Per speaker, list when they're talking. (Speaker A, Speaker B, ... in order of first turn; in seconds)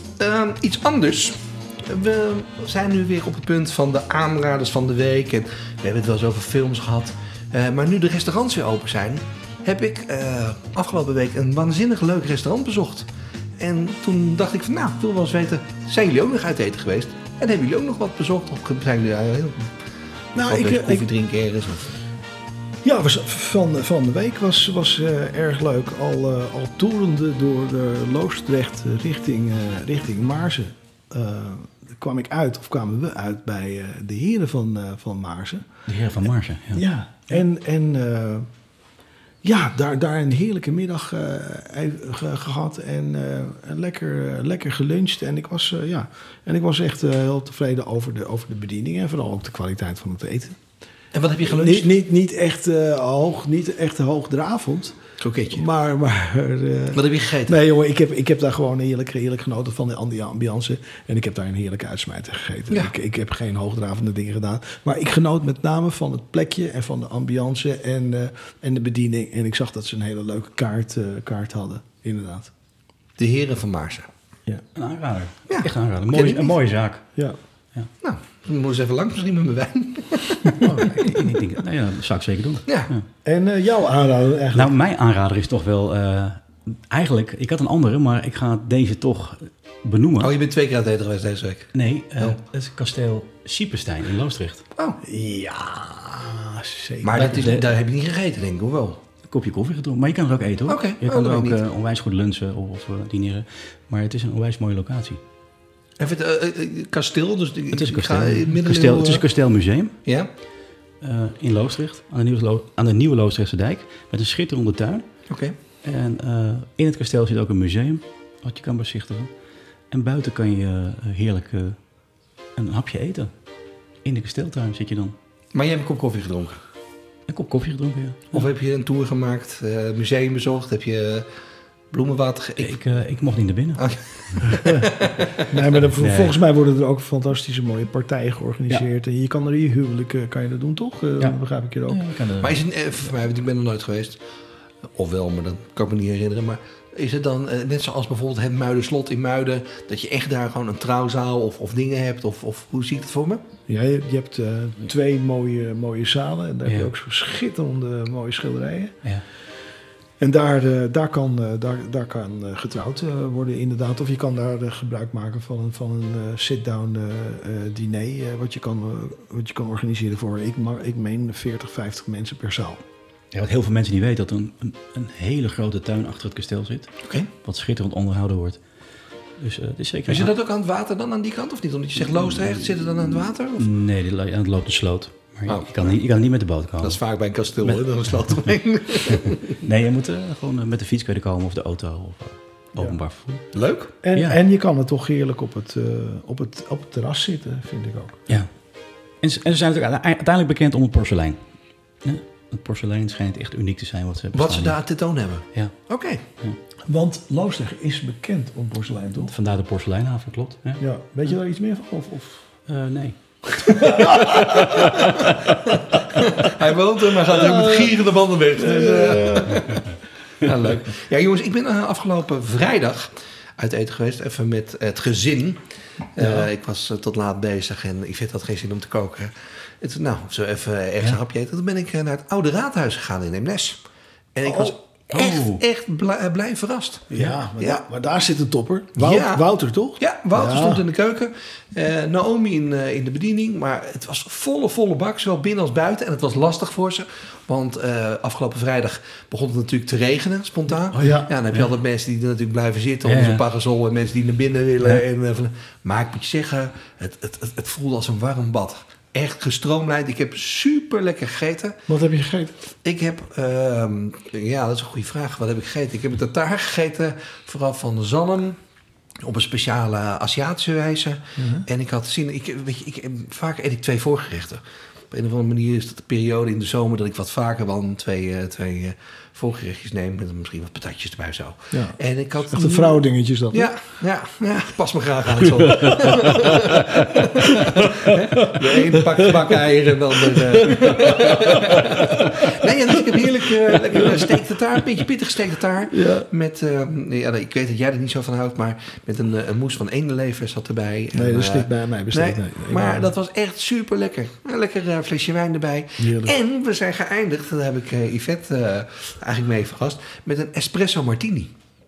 Speaker A: 0.2-13.1, 13.6-19.7, 20.4-21.9, 51.1-51.9, 55.2-55.6, 56.9-57.6, 73.2-74.1, 75.5-76.5, 78.0-80.7, 90.2-92.4, 97.0-99.0, 100.7-101.6, 106.0-109.2, 115.3-115.5, 125.5-126.6, 128.3-131.3, 131.9-132.8, 133.8-135.4, 142.4-144.2, 144.9-153.4, 177.0-177.3, 180.1-183.7, 185.5-186.0, 186.8-189.6, 193.5-193.9, 204.3-206.2, 213.8-225.6, 226.2-233.8, 234.3-237.8, 239.0-239.4, 240.0-261.8, 262.9-268.6, 269.2-283.0, 283.5-311.5
Speaker B: 20.4-21.1, 22.8-35.6, 36.7-38.5, 39.4-50.6, 51.5-55.0, 55.5-72.5, 80.5-81.1, 83.2-84.7, 95.0-97.3, 135.4-142.0, 153.7-159.0, 160.2-172.8, 194.0-198.2, 206.9-209.3, 210.8-212.4, 213.6-215.1, 217.2-218.0, 218.6-219.6, 234.4-234.7, 237.1-240.8, 251.0-251.3, 261.9-262.6, 271.4-271.7, 281.7-283.7, 288.5-289.4, 291.0-292.3, 295.9-296.3, 301.1-303.1, 306.0-306.4
Speaker C: 35.9-36.8, 74.8-77.0, 80.8-83.1, 84.5-90.3, 91.7-94.6, 97.2-97.7, 99.3-105.2, 107.7-110.0, 111.0-115.1, 115.8-119.3, 119.9-121.8, 122.6-123.3, 124.0-125.2, 127.3-128.4, 132.6-134.4, 136.0-136.4, 141.2-142.6, 173.3-178.6, 179.4-180.3, 183.6-187.0, 187.6-188.5, 189.1-193.5, 194.1-194.4, 199.2-201.4, 202.0-204.8, 209.3-210.8, 212.7-213.2, 214.6-215.0, 235.1-235.6, 250.9-251.7, 253.1-253.4